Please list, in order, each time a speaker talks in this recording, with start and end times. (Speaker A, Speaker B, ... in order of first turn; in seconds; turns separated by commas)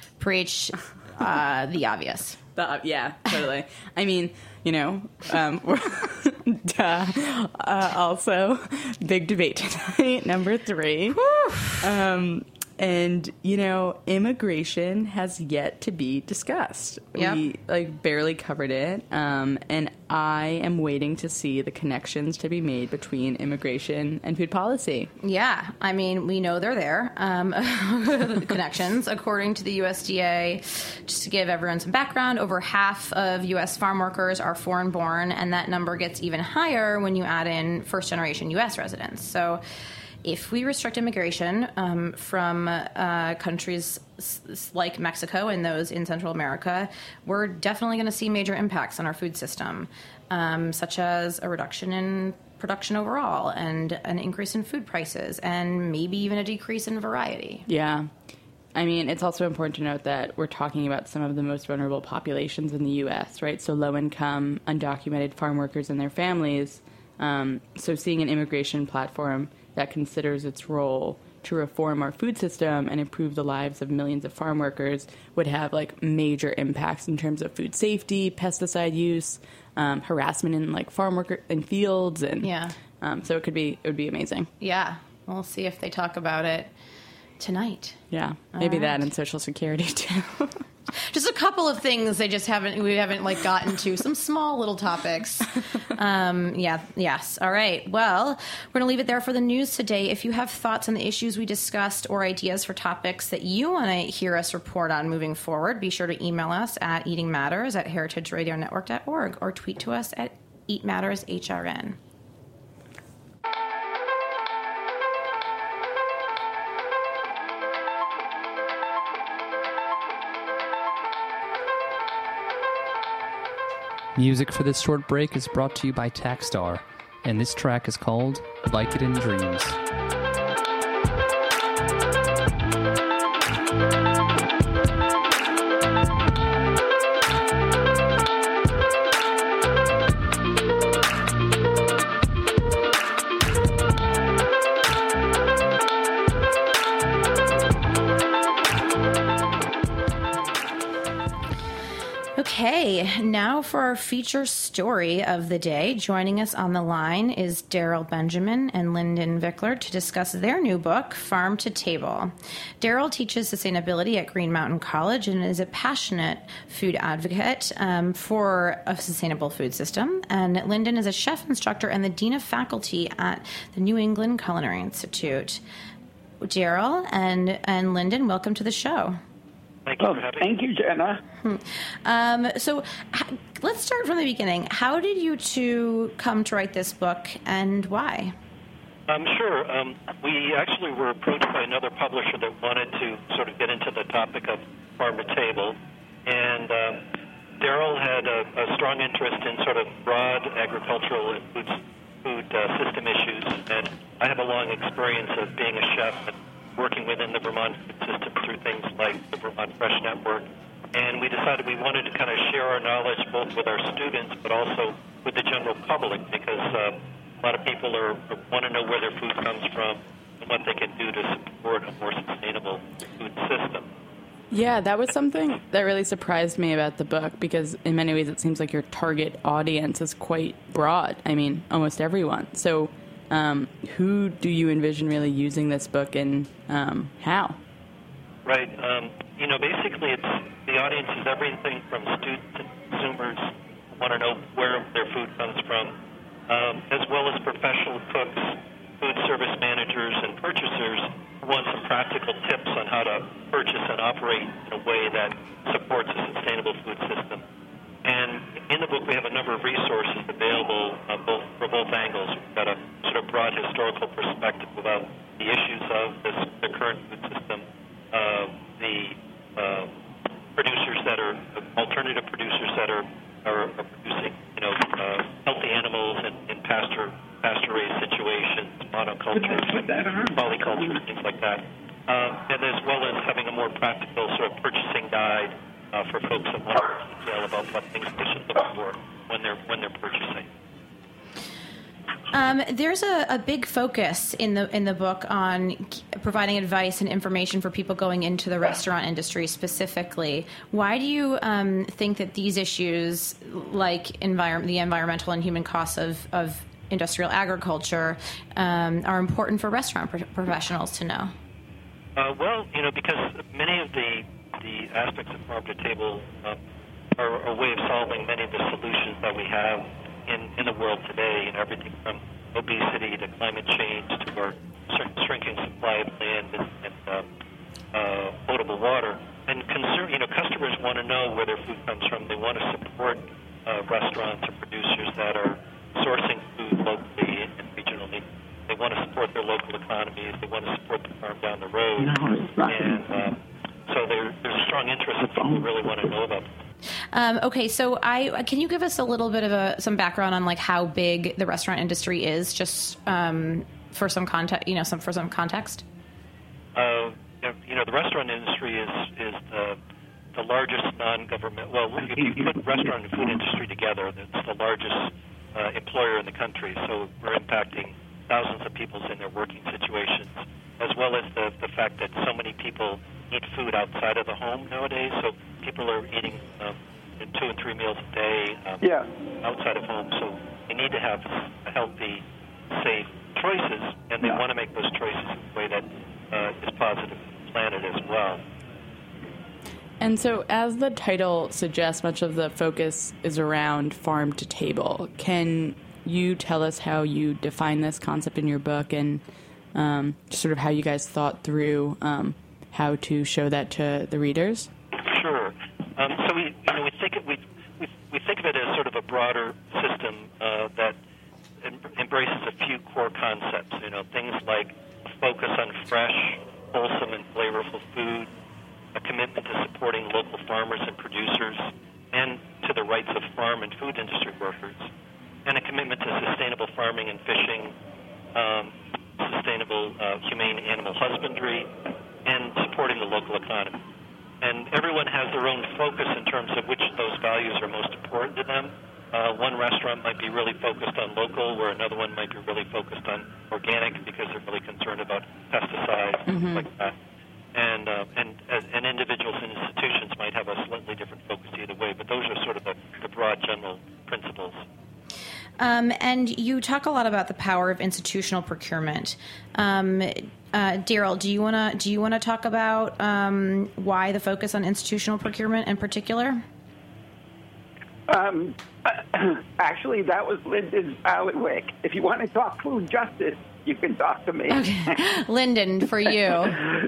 Speaker A: 0.2-2.4, Speaker B: 2.5-11.2, Speaker A: 11.1-11.9, Speaker B: 11.8-25.1, Speaker A: 17.1-17.4, Speaker A: 25.2-39.6, Speaker A: 40.2-57.6, Speaker B: 57.7-58.1, Speaker B: 58.7-84.5, Speaker A: 82.4-82.8, Speaker A: 84.6-86.7, Speaker A: 87.4-88.0, Speaker B: 88.1-90.6, Speaker A: 88.5-89.0, Speaker A: 91.0-112.0, Speaker C: 124.1-129.8, Speaker A: 152.4-175.6, Speaker A: 176.4-179.2, Speaker D: 179.8-180.5, Speaker E: 180.0-181.2, Speaker A: 181.4-188.3, Speaker D: 189.1-195.7, Speaker D: 196.2-197.0, Speaker D: 197.6-223.9, Speaker B: 224.5-237.6, Speaker D: 238.4-245.9, Speaker D: 246.5-257.4, Speaker D: 258.0-269.9, Speaker D: 270.6-290.5, Speaker E: 279.4-281.0, Speaker A: 292.3-311.3, Speaker D: 312.1-316.6, Speaker D: 317.2-327.2, Speaker D: 327.9-343.4, Speaker E: 342.0-343.0, Speaker D: 343.9-346.5, Speaker E: 345.3-345.7, Speaker A: 347.1-355.8, Speaker D: 356.8-359.8, Speaker D: 360.3-378.9, Speaker E: 378.8-379.1, Speaker D: 379.4-388.4, Speaker B: 390.0-399.2, Speaker B: 399.7-404.7, Speaker D: 405.0-411.0, Speaker D: 411.6-418.3, Speaker D: 418.9-424.9, Speaker D: 425.4-427.7, Speaker D: 428.3-431.7, Speaker D: 432.2-433.8, Speaker D: 434.4-446.9, Speaker B: 446.3-446.6, Speaker D: 447.5-454.6, Speaker A: 455.6-466.4, Speaker E: 468.1-475.0, Speaker A: 474.5-476.6